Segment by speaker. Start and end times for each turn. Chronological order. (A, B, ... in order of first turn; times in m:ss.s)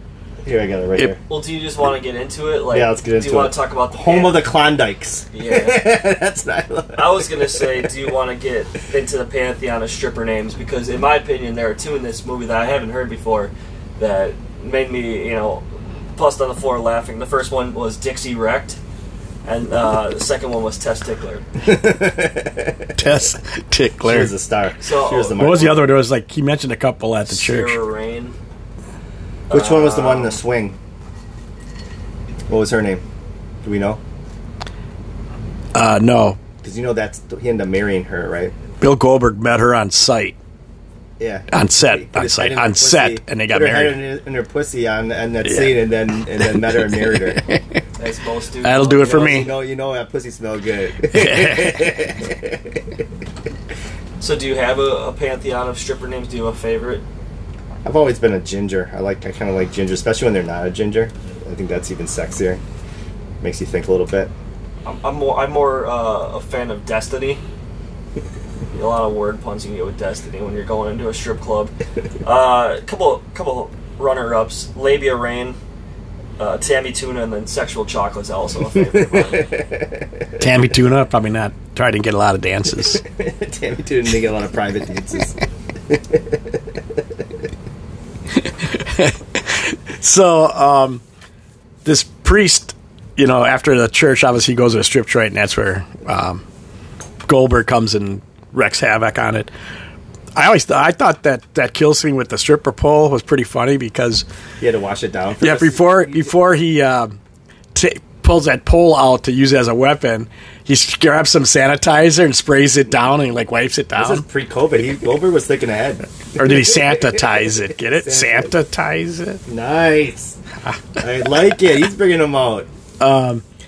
0:00.4-0:01.2 A
0:01.3-0:04.4 B
0:02.7-0:07.9 A
0:05.3-0:05.8 B
0:07.0-0:18.8 B
0:19.4-0:21.4 B
0:21.6-0:23.0 A
0:23.0-0:24.3 C
0:24.0-0:25.9 A
0:24.8-0:25.5 B
0:25.4-0:27.8 C
0:27.3-0:28.3 B
0:29.5-0:30.4 B
0:29.5-0:30.8 A
0:32.5-0:33.0 A
0:33.6-0:34.0 A
0:35.7-0:36.4 C
0:36.6-0:38.5 A
0:38.8-0:40.4 C
0:41.2-0:47.4 A
0:41.5-0:44.0 C
0:45.4-0:45.8 C
0:48.0-0:49.4 B
0:48.6-0:49.5 C
0:49.0-0:53.0 A
0:51.1-0:52.0 C
0:54.2-0:57.0 B
0:57.8-1:02.6 A
1:03.4-1:04.3 A
1:04.8-1:07.4 B
1:08.7-1:15.6 B
1:16.4-1:19.6 B
1:18.8-1:20.4 A
1:20.4-1:23.0 C
1:22.8-1:25.3 A
1:25.9-1:26.6 A
1:28.4-1:31.0 C
1:31.8-1:36.4 C
1:37.2-1:39.5 C
1:40.3-1:44.2 C
1:44.6-1:46.3 A
1:45.4-1:47.2 C
1:47.7-1:54.2 C
1:53.9-1:57.3 A
1:56.4-1:59.4 C
1:57.9-1:58.5 A
1:59.5-2:00.4 A
2:01.0-2:02.7 A
2:03.0-2:03.4 C